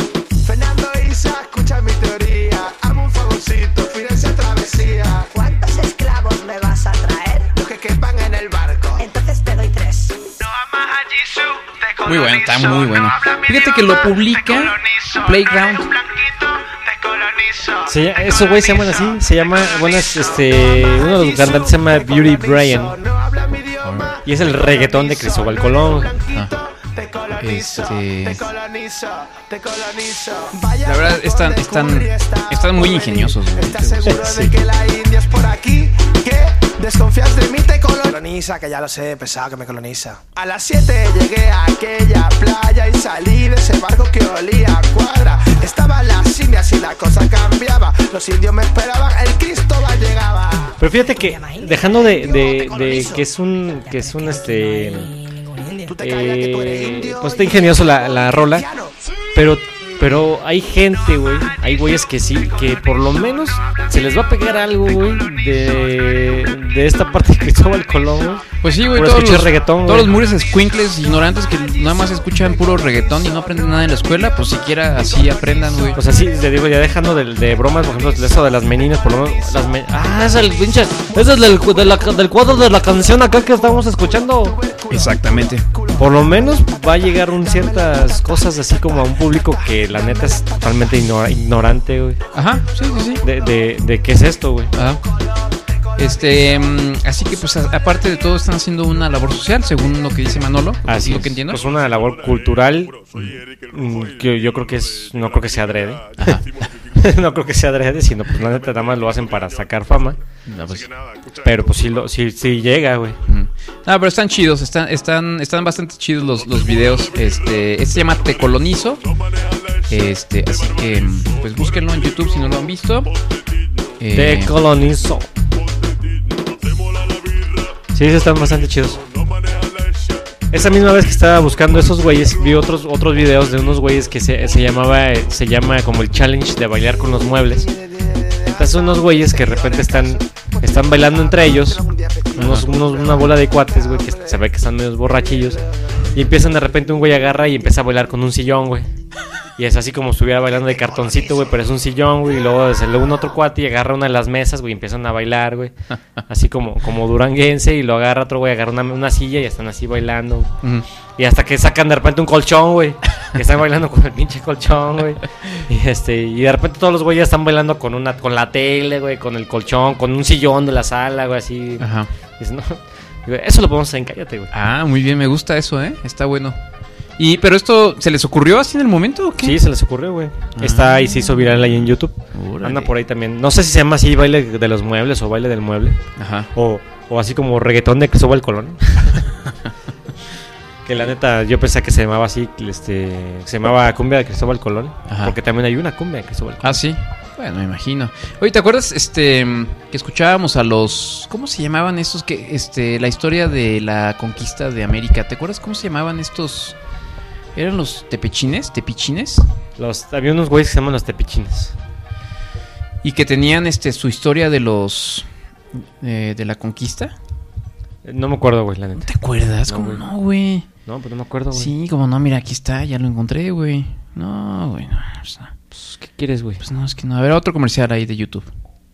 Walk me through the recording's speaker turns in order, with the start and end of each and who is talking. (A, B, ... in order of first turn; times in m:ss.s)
0:00.4-0:05.3 A
0:05.3-0:07.5 B
0:07.5-0:09.1 A
0:09.0-0:10.2 B
0:10.4-0:50.8 A
0:12.1-0:15.9 C
0:17.9-0:23.0 D
0:23.8-0:24.1 C
0:24.3-0:26.1 D
0:27.4-0:28.5 C
0:30.8-0:34.4 C
0:34.1-0:34.5 D
0:50.8-0:55.1 D
0:51.4-0:52.0 B
0:52.4-0:53.2 A
0:54.0-0:55.9 B
0:55.8-0:59.0 A
0:56.0-0:58.7 D
0:59.4-1:10.2 D
1:08.6-1:16.0 C
1:12.6-1:13.6 A
1:15.0-1:16.1 A
1:16.0-1:24.6 D
1:17.7-1:18.4 A
1:19.2-1:30.8 A
1:24.9-1:25.6 C
1:26.0-1:32.2 D
1:32.3-1:33.2 C
1:33.2-1:34.7 D
1:34.7-1:35.0 C
1:35.0-1:36.7 A
1:36.0-1:41.6 C
1:40.8-1:43.0 D
1:43.7-1:46.4 D
1:46.2-1:46.7 C
1:47.0-1:50.2 D
1:50.5-1:50.9 C
1:51.4-1:53.2 D
1:53.3-1:59.0 C
1:59.9-2:03.1 C
2:04.0-2:04.6 C
2:04.1-2:05.3 D
2:07.9-2:09.0 D
2:10.5-2:17.7 D
2:17.1-2:24.4 A
2:18.5-2:21.8 D
2:22.4-2:22.7 C
2:22.4-2:25.6 D
2:26.1-2:28.9 D
2:29.6-2:35.8 D
2:30.9-2:31.5 A
2:36.3-2:40.5 D
2:41.2-2:51.9 D
2:51.8-2:52.1 C
2:52.4-2:54.5 D
2:54.5-2:56.6 C
2:57.2-2:59.6 C
2:59.4-3:06.0 D
3:00.6-3:01.7 C
3:02.3-3:02.9 C
3:06.2-3:06.5 C
3:06.5-3:09.2 D
3:10.9-3:16.8 D
3:15.1-3:15.4 C
3:16.6-3:26.8 C
3:27.6-3:29.4 C
3:29.8-3:31.8 D
3:33.0-3:35.3 C
3:35.8-3:37.1 C
3:38.0-3:39.1 D
3:39.0-3:40.7 C
3:39.6-3:40.0 D
3:40.9-3:41.7 D
3:41.5-3:45.5 C
3:45.7-3:46.6 D
3:46.6-3:48.5 C